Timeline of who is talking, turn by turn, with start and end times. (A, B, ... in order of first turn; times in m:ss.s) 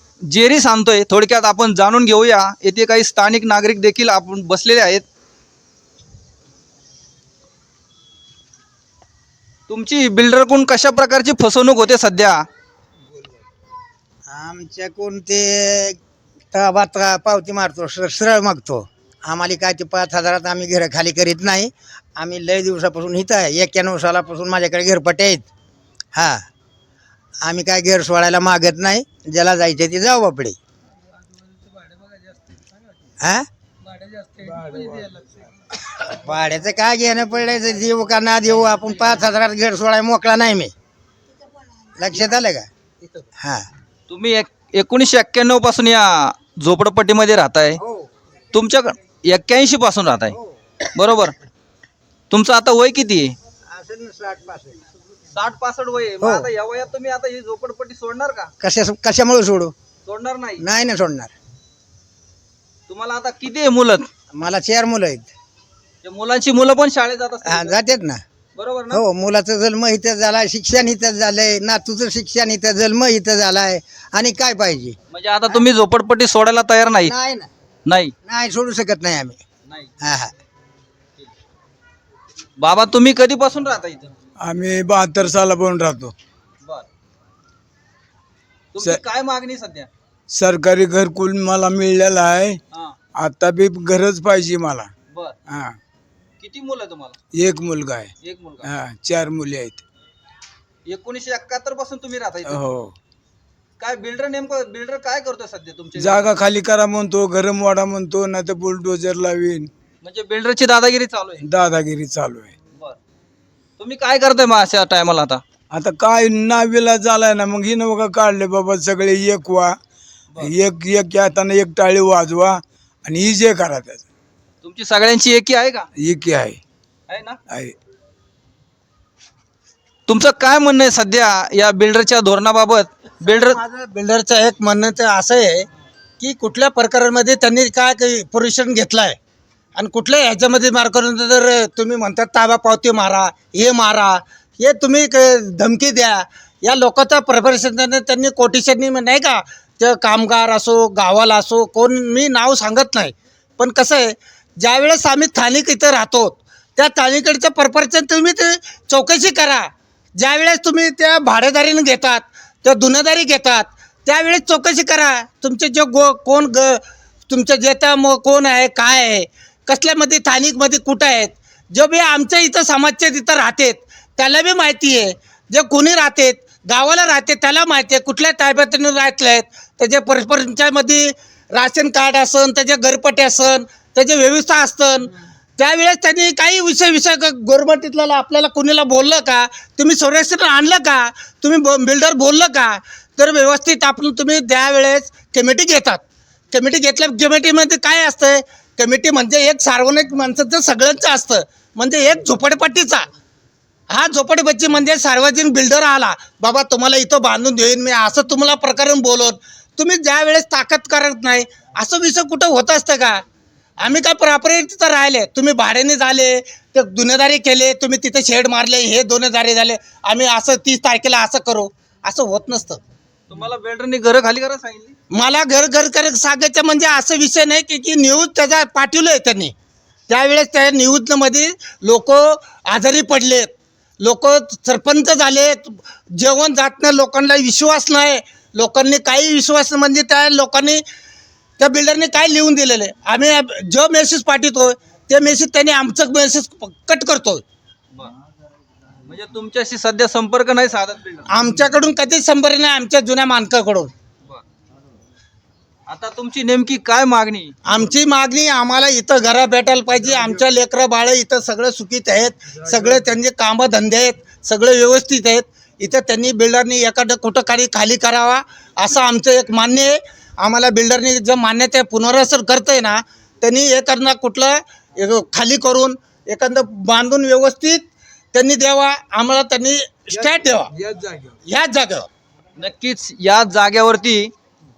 0:00.3-0:05.0 A
0:09.7-0:12.4 A
0:14.3-0:16.0 B
0:16.5-0:25.4 B
0:26.1-0:26.4 B
0:27.4-0:30.6 B
0:33.2-0:33.5 B
0:34.4-0:35.2 C
0:36.2-0:40.7 B
0:42.0-0:42.7 B
0:43.4-0:43.7 B
0:44.1-0:47.8 A
0:48.5-0:51.3 A
0:52.3-0:53.3 A
0:53.7-0:54.8 B
0:55.3-0:58.5 A
0:56.2-0:56.5 B
0:58.6-0:59.7 B
1:00.0-1:00.6 A
1:00.6-1:01.3 B
1:02.9-1:04.1 A
1:04.3-1:05.3 B
1:06.0-1:07.9 A
1:07.4-1:08.2 B
1:08.5-1:09.0 A
1:08.9-1:15.0 B
1:15.1-1:17.1 A
1:17.0-1:17.5 B
1:17.8-1:18.1 A
1:18.2-1:19.4 B
1:19.7-1:19.9 A
1:20.0-1:20.3 B
1:22.6-1:24.1 A
1:24.4-1:26.1 C
1:28.7-1:29.9 A
1:30.3-1:32.6 C
1:33.2-1:34.9 C
1:35.5-1:35.8 C
1:36.4-1:37.2 A
1:37.3-1:38.1 C
1:38.2-1:38.6 A
1:38.6-1:39.8 C
1:40.8-1:42.6 A
1:42.5-1:42.9 C
1:43.8-1:46.3 A
1:46.0-1:49.7 C
1:50.0-1:51.4 A
1:51.4-1:52.5 C
1:53.8-1:55.4 A
1:55.7-1:59.8 C
2:00.4-2:04.0 C
2:04.6-2:05.9 A
2:06.0-2:06.6 C
2:07.1-2:07.4 A
2:10.1-2:13.6 A
2:13.2-2:15.7 D
2:16.2-2:19.2 D
2:19.8-3:23.1 D
3:23.9-3:33.2 D
3:33.8-3:42.8 D
3:43.3-3:45.0 A
3:45.1-3:49.5 D
3:50.1-4:00.8 D
4:01.6-4:07.4 D
4:09.1-4:11.3 A
4:11.3-4:13.9 D
4:15.9-4:17.6 A
4:17.6-4:40.7 D
4:40.1-4:41.3 C
4:41.4-4:42.1 D
4:42.6-4:44.3 A